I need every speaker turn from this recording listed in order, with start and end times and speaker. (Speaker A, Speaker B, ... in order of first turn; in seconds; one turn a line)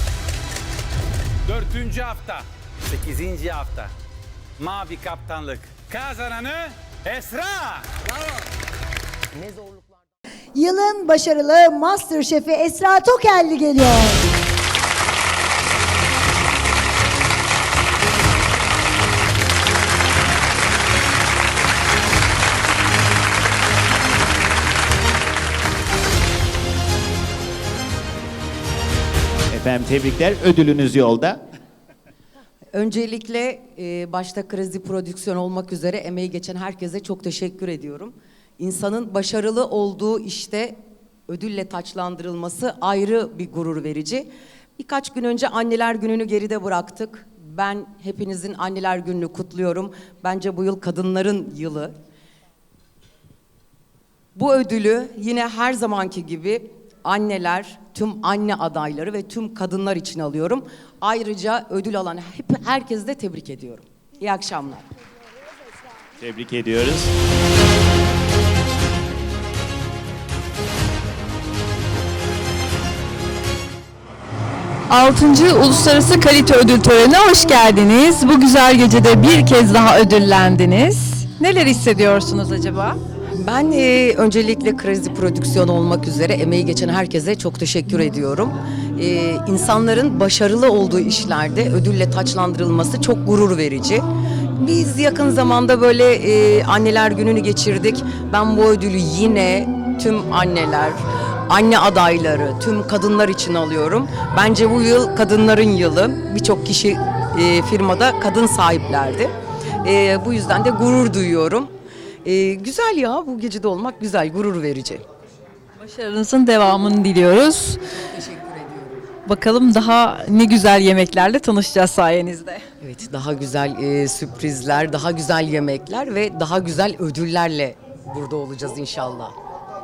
Speaker A: 1.5-3.9
Speaker A: 4.6-7.9
Speaker B: 10.6-14.2
Speaker C: 29.5-31.4
Speaker D: 32.7-40.8
Speaker D: 41.3-52.0
Speaker D: 54.4-64.9
Speaker C: 66.2-67.1
Speaker E: 74.9-83.0
Speaker D: 83.4-94.0
Speaker D: 94.6-111.7
Speaker D: 112.2-115.0
Speaker E: 115.8-117.8
Speaker D: 118.0-119.1
Speaker E: 119.3-122.6
Speaker D: 122.8-129.3